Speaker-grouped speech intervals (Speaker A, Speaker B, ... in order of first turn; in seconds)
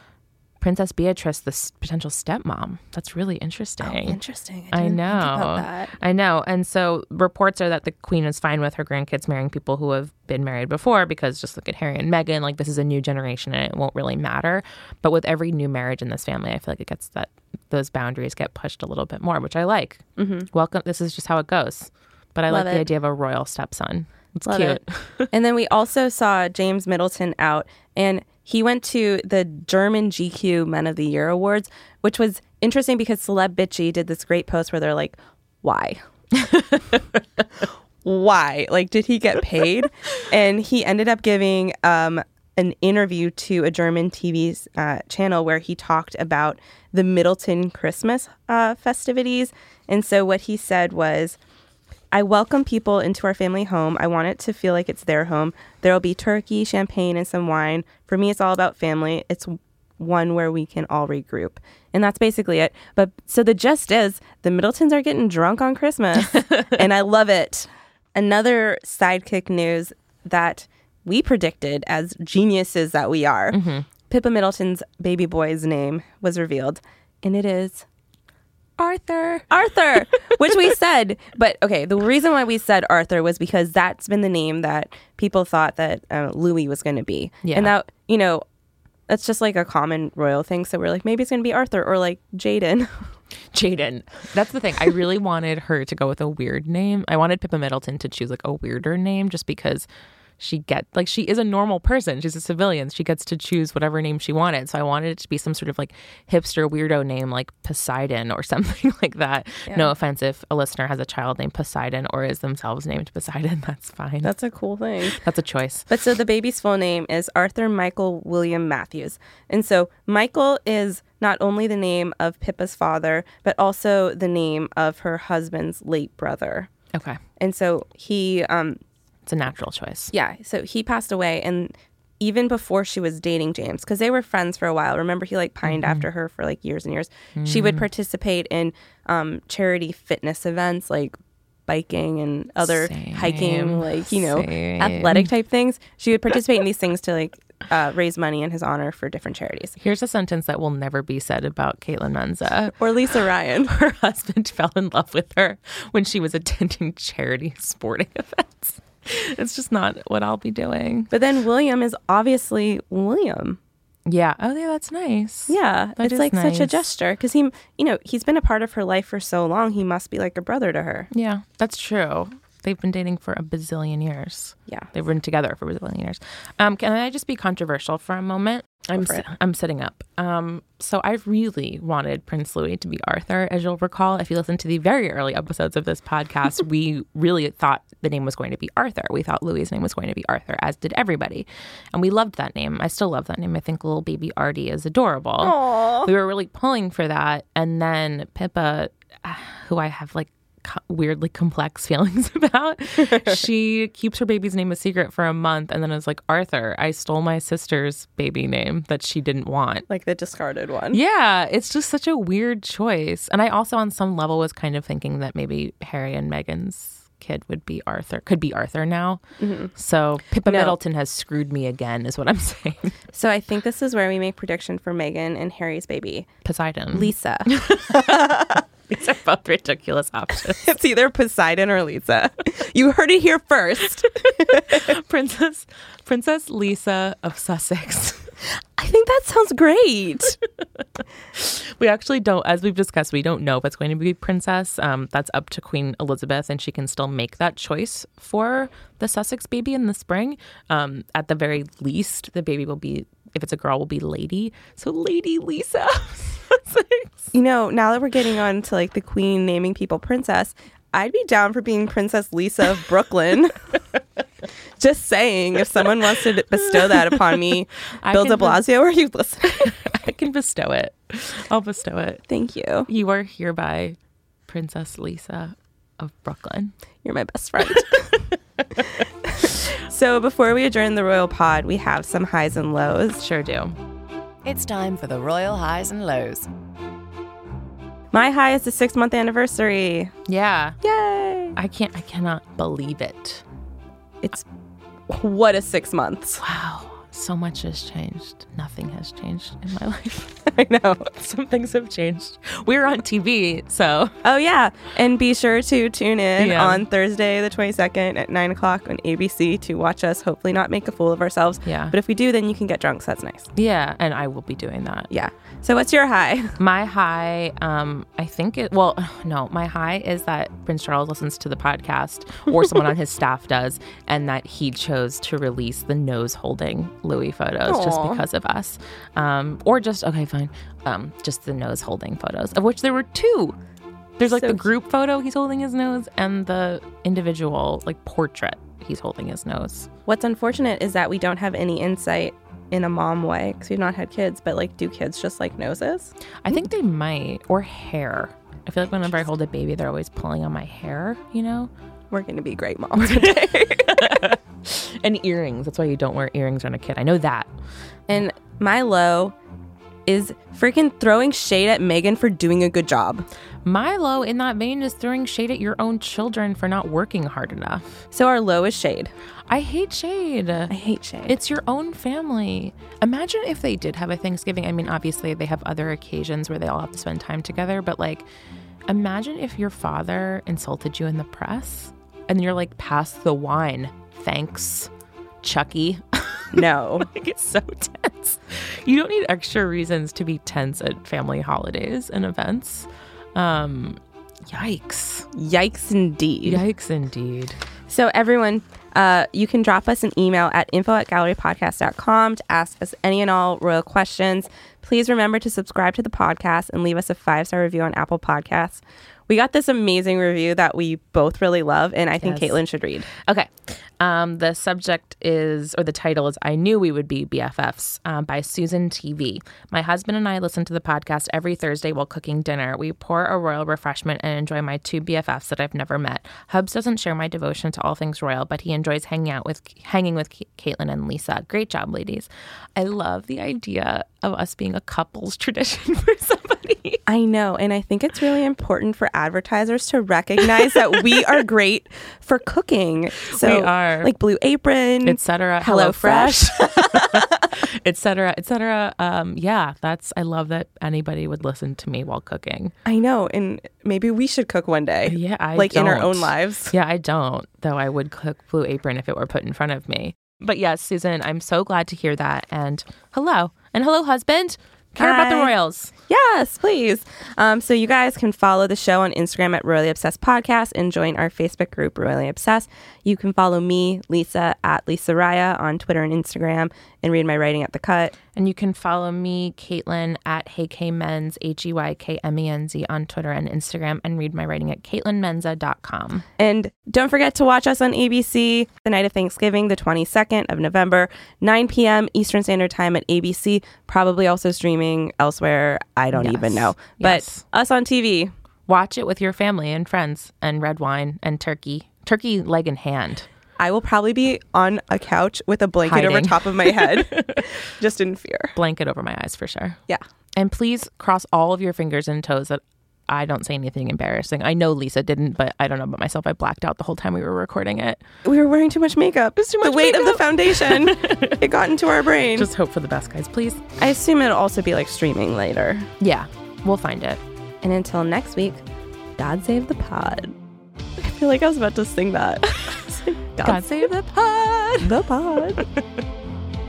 Speaker A: 0.6-4.2, 4.7-25.3, 36.4-37.0, 73.5-73.9, 78.8-79.5, 87.4-87.7, 93.5-99.9, 100.4-114.3, 115.1-115.9, 126.9-127.2, 129.2-130.1, 135.6-136.0, 137.3-137.8, 142.6-145.3, 149.8-152.8, 153.6-161.1, 164.1-166.8, 171.1-209.9, 210.9-219.2, 219.7-223.0, 226.4-230.8, 234.1-238.3, 241.3-257.3, 267.0-267.4, 268.0-268.6, 269.6-272.2, 272.9-276.7, 283.2-283.7, 290.3-290.8, 291.5-293.4, 296.4-300.4, 301.1-304.1, 306.4-306.9, 311.6-311.9, 313.5-315.1, 316.6-333.6, 334.2-339.9, 346.4-351.7, 353.0-357.5, 363.6-368.1, 369.5-370.7, 371.2-378.2, 378.9-384.9, 385.4-395.2, 396.4-397.6, 412.2-412.6, 413.1-437.0, 443.3-444.1, 445.0-452.7, 455.1-465.9, 478.3-486.2, 496.1-497.4, 498.7-503.3, 505.8-507.6, 508.5-509.8, 510.4-518.0, 519.4-521.4, 522.3-523.6, 526.0-527.2, 533.4-535.0
Speaker B: 3.8-5.9, 20.2-20.5, 22.5-22.9, 24.5-36.0, 37.6-51.4, 52.1-77.8, 79.5-88.4, 89.1-93.1, 114.2-115.2, 115.9-126.7, 127.4-128.8, 130.1-141.1, 141.7-149.7, 152.8-153.7, 161.1-163.6, 165.5-171.1, 179.0-179.2, 195.4-196.1, 203.1-203.4, 209.9-211.0, 219.4-219.7, 220.4-220.8, 223.1-226.3, 226.9-228.6, 230.6-234.8, 238.8-240.4, 257.3-263.8, 264.8-269.7, 272.3-272.9, 277.0-283.2, 288.1-290.1, 290.8-291.6, 295.1-296.4, 300.4-301.1, 304.2-313.5, 315.1-316.6, 327.6-328.2, 334.3-334.6, 340.1-346.1, 352.1-354.2, 358.1-359.3, 360.1-363.3, 368.1-369.1, 370.7-371.4, 386.5-387.1, 395.3-396.6, 397.9-413.1, 437.1-447.4, 452.8-456.7, 464.9-465.5, 466.1-478.1, 486.4-498.3, 503.6-508.6, 518.2-522.5, 523.8-525.9, 527.6-528.6, 529.2-530.4, 531.0-533.9, 534.8-535.6
Speaker C: 284.4-286.5